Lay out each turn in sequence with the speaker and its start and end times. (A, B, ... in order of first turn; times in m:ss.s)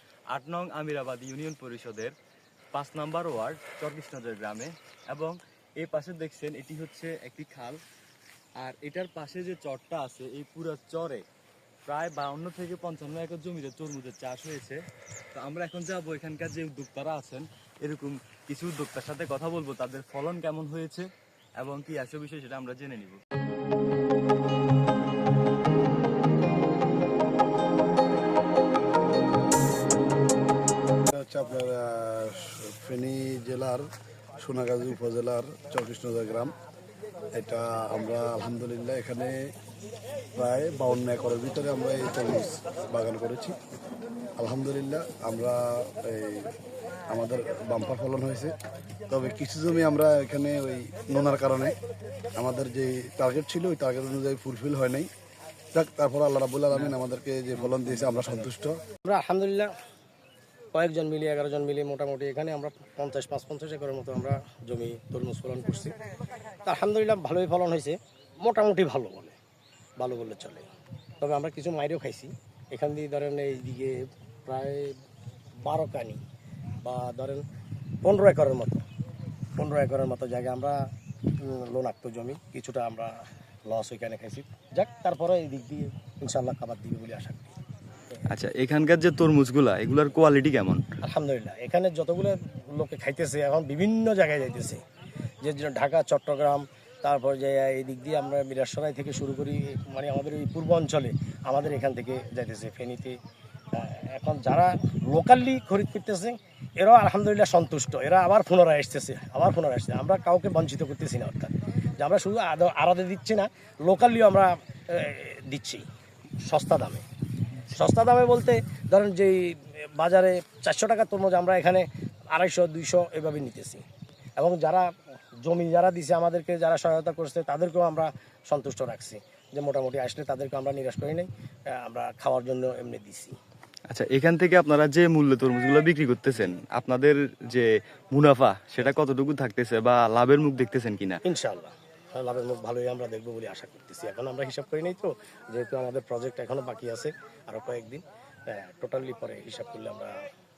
0:00.3-0:02.1 A
0:02.7-0:07.8 A
0:08.6-0:11.2 A
0:11.9-0:14.8 A
0:15.3-0:21.1 A
0:21.6-0:23.2 A
0:31.1-0:33.9 B
0:34.4-0:36.5 B
0:37.3-0:39.5 B
0:40.3-0:43.6 B
0:44.4-0:46.5 B
0:47.1-0:48.5 B
0:49.1-0:51.8 B
0:52.4-0:55.1 B
0:55.7-0:58.8 B
0:58.0-0:58.3 C
0:59.0-0:59.7 C
1:00.7-1:05.9 C
1:06.6-1:09.4 C
1:10.0-1:10.6 C
1:11.2-1:15.0 C
1:15.6-1:16.2 C
1:16.8-1:17.4 C
1:18.0-1:18.8 C
1:19.6-1:20.7 C
1:21.4-1:23.1 C
1:23.7-1:27.5 C
1:28.2-1:30.8 A
1:31.0-1:34.8 C
1:35.4-1:43.2 C
1:43.7-1:55.8 C
1:56.4-1:57.0 C
1:57.7-2:03.8 C
2:04.4-2:04.9 C
2:05.4-2:13.4 C
2:13.9-2:21.2 A
2:21.2-2:30.1 C